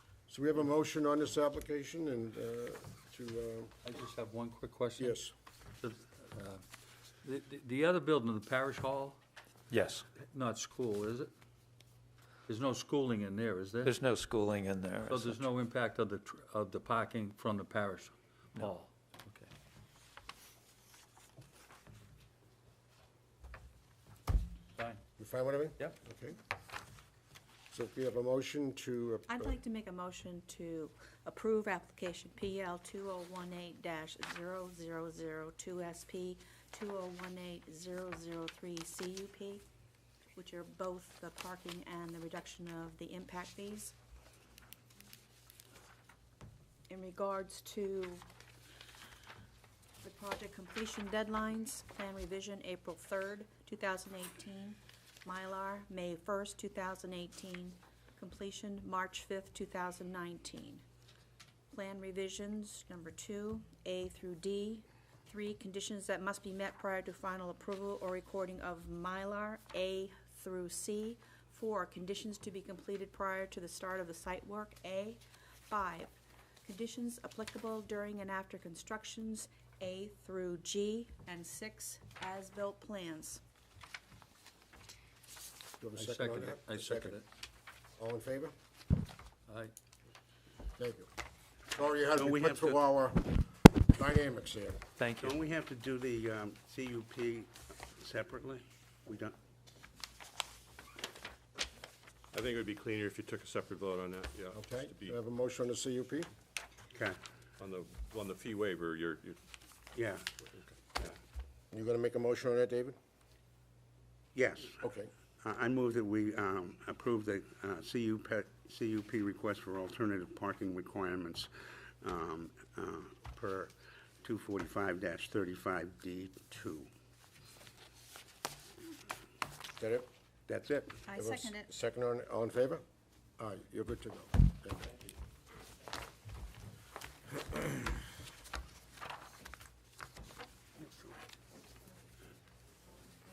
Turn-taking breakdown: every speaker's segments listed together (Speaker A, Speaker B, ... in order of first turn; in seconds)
Speaker A: 0.3-3.7, 5.0-5.3, 25.2-26.4, 27.7-29.5, 85.8-87.2, 88.0-88.5, 90.8-91.1, 91.7-94.8, 104.5-106.3, 111.7-113.0, 114.8-115.1, 129.8-130.1, 131.1-132.8, 133.4-135.0
Speaker B: 3.8-5.2, 5.8-6.6, 7.2-9.2, 10.2-11.3, 12.5-13.9, 15.1-19.5, 24.8-25.0, 86.0-87.2, 89.5-89.7
Speaker C: 9.7-10.1, 13.8-15.4, 95.0-95.3
Speaker D: 29.3-39.6, 40.3-43.9, 46.9-48.2, 50.0-60.8, 61.7-76.1, 76.6-83.4, 131.1-131.7
Speaker E: 92.2-92.8, 95.2-99.3, 106.9-107.2, 109.9-110.3, 114.3-114.8, 115.4-126.9, 130.5-131.0, 140.8-141.2
Speaker F: 102.3-105.2, 107.6-109.4